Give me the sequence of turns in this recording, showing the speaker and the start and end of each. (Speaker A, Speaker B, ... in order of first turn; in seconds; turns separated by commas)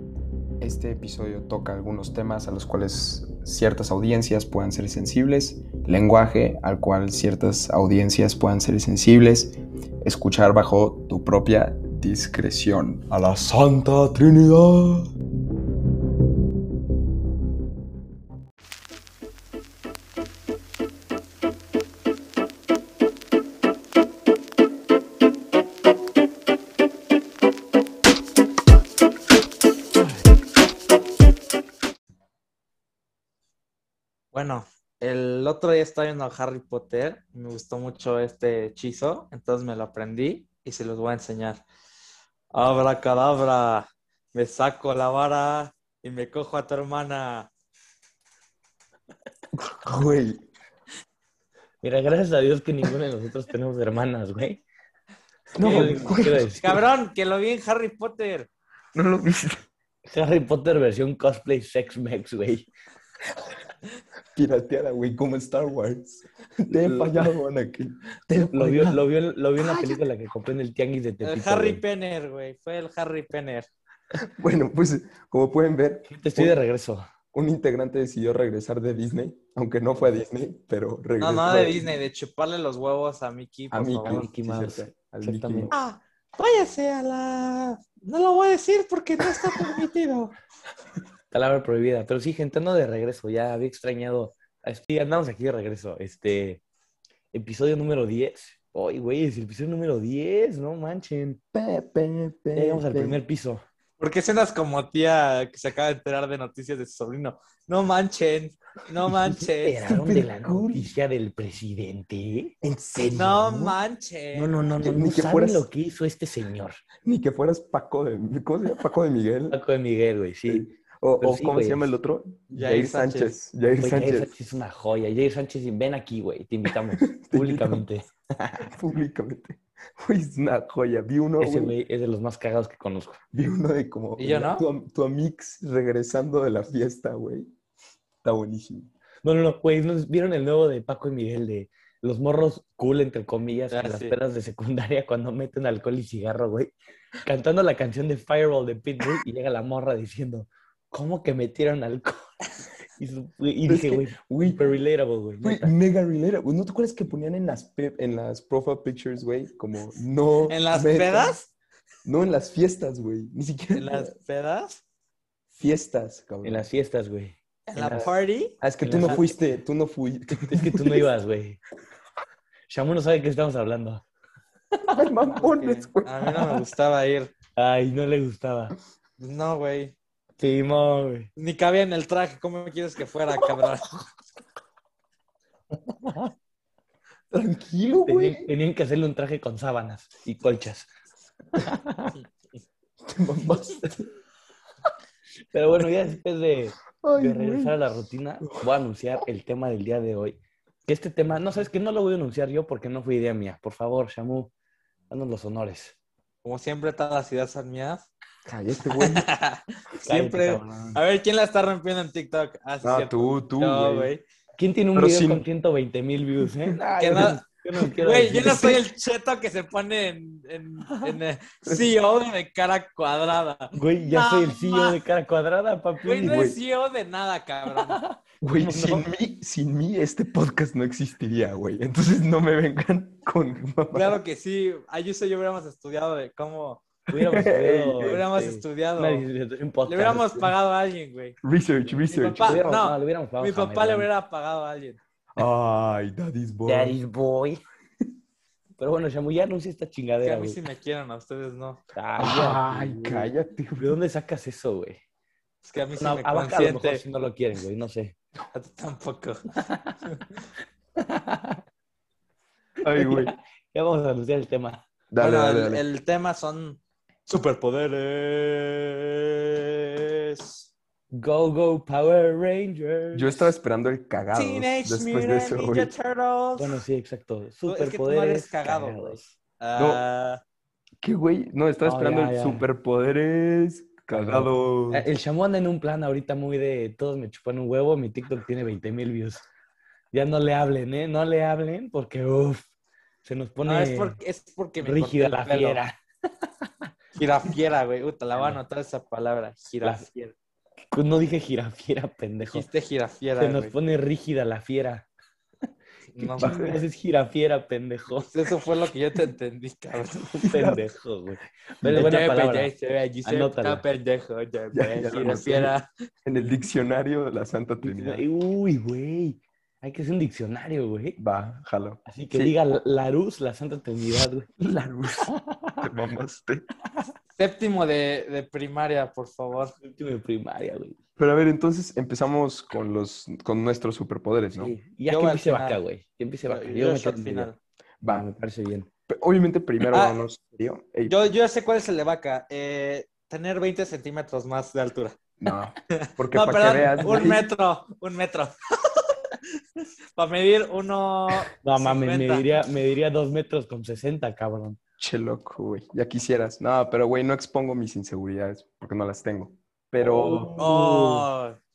Speaker A: 0.6-15.1, Speaker B: 34.3-41.6, Speaker B: 42.5-47.5, Speaker A: 49.5-50.5, Speaker C: 51.8-54.6, Speaker A: 55.5-56.8, Speaker B: 55.5-58.5, Speaker C: 55.6-56.7, Speaker A: 58.9-59.6, Speaker C: 60.1-62.7, Speaker A: 64.3-69.0, Speaker C: 66.8-67.3, Speaker C: 68.5-71.8, Speaker A: 69.6-70.0, Speaker B: 71.2-73.7, Speaker A: 74.2-76.6, Speaker C: 76.1-77.0, Speaker A: 77.3-81.9, Speaker B: 81.2-84.2, Speaker A: 83.7-85.7, Speaker C: 84.0-85.8, Speaker B: 85.7-90.3, Speaker A: 89.5-89.8, Speaker C: 91.3-96.6, Speaker C: 97.3-101.4, Speaker A: 101.5-103.2, Speaker C: 102.5-103.6, Speaker B: 104.0-109.8, Speaker C: 109.4-112.5, Speaker A: 109.8-110.9, Speaker A: 112.6-113.8, Speaker B: 113.1-114.6, Speaker C: 114.3-116.8, Speaker A: 114.8-115.7, Speaker A: 117.0-119.6, Speaker C: 119.5-121.9, Speaker A: 120.5-124.3, Speaker B: 122.5-123.3, Speaker C: 123.8-128.7, Speaker A: 127.0-127.9, Speaker A: 128.6-131.7, Speaker C: 131.4-133.2, Speaker A: 133.3-137.5, Speaker B: 134.2-134.6, Speaker A: 138.2-138.9, Speaker C: 139.2-152.2, Speaker B: 143.7-144.1, Speaker C: 153.0-155.7, Speaker A: 153.7-154.8, Speaker A: 155.4-161.5, Speaker B: 160.5-161.4, Speaker A: 162.0-164.1, Speaker B: 163.7-164.8, Speaker A: 165.5-166.7, Speaker C: 166.4-168.1, Speaker B: 167.7-169.2, Speaker A: 168.6-171.1, Speaker C: 168.8-169.4, Speaker C: 170.3-171.6, Speaker C: 172.7-174.0, Speaker A: 174.9-176.6, Speaker B: 175.3-177.3, Speaker C: 177.6-178.7, Speaker B: 179.2-179.9, Speaker C: 180.4-181.3, Speaker B: 181.3-184.1, Speaker C: 185.9-186.3, Speaker A: 187.3-188.5, Speaker C: 188.0-190.9, Speaker C: 191.5-192.1, Speaker A: 193.0-194.1, Speaker C: 195.5-204.5, Speaker A: 197.0-197.7, Speaker C: 205.1-205.9, Speaker B: 206.4-208.0, Speaker A: 208.4-209.3, Speaker B: 208.8-214.2, Speaker C: 209.9-211.0, Speaker A: 212.8-214.1, Speaker C: 214.6-218.8, Speaker A: 214.9-215.4, Speaker A: 216.4-217.3, Speaker B: 217.0-225.0, Speaker A: 218.3-218.8, Speaker C: 220.9-221.1, Speaker A: 221.6-221.9, Speaker C: 223.7-226.5, Speaker B: 226.0-228.0, Speaker A: 226.2-226.6, Speaker C: 227.8-229.1, Speaker A: 228.4-234.2, Speaker B: 233.9-236.8, Speaker A: 237.1-238.2, Speaker C: 237.1-240.5, Speaker B: 238.0-239.3, Speaker B: 239.8-241.4, Speaker A: 241.4-242.6, Speaker B: 242.0-245.0, Speaker C: 242.4-244.1, Speaker A: 245.3-246.9, Speaker C: 246.7-247.6, Speaker C: 248.8-250.6, Speaker B: 250.2-251.8, Speaker C: 251.9-255.0, Speaker A: 252.2-254.0, Speaker B: 255.6-257.0, Speaker C: 255.9-258.1, Speaker B: 258.5-259.5, Speaker C: 259.6-260.0, Speaker C: 261.0-261.6, Speaker A: 262.8-263.3, Speaker C: 262.9-264.8, Speaker A: 265.1-265.8, Speaker B: 265.2-270.7, Speaker C: 271.1-273.5, Speaker A: 273.1-275.9, Speaker B: 274.3-276.8, Speaker C: 276.6-279.3, Speaker B: 277.6-280.4, Speaker A: 279.8-280.0, Speaker A: 281.0-285.1, Speaker C: 281.8-282.6, Speaker C: 284.1-289.4, Speaker C: 290.1-292.6, Speaker C: 293.2-294.2, Speaker B: 293.6-295.8, Speaker C: 294.8-295.9, Speaker B: 297.1-300.3, Speaker C: 298.3-298.6, Speaker C: 300.9-302.6, Speaker B: 302.5-303.7, Speaker C: 303.4-305.1, Speaker B: 306.1-306.8, Speaker C: 306.2-308.3, Speaker A: 306.4-306.8, Speaker B: 308.2-310.3, Speaker A: 310.2-310.8, Speaker C: 310.4-312.7, Speaker A: 311.8-312.1, Speaker B: 311.9-315.9, Speaker C: 313.2-313.8, Speaker A: 314.7-318.2, Speaker C: 317.8-321.2, Speaker A: 321.2-322.6, Speaker C: 322.1-324.5, Speaker A: 324.6-326.6, Speaker C: 325.3-325.8, Speaker B: 327.4-329.7, Speaker C: 329.8-331.0, Speaker A: 331.2-334.7, Speaker C: 334.6-337.5, Speaker B: 335.1-335.8, Speaker B: 336.5-337.6, Speaker A: 338.0-338.2, Speaker C: 338.0-338.9, Speaker A: 339.1-341.1, Speaker B: 339.8-340.2, Speaker B: 341.1-345.2, Speaker A: 345.4-347.4, Speaker B: 345.9-349.4, Speaker C: 346.9-347.3, Speaker B: 350.1-352.4, Speaker C: 351.6-354.8, Speaker A: 355.0-360.6, Speaker C: 360.0-361.3, Speaker B: 360.6-361.6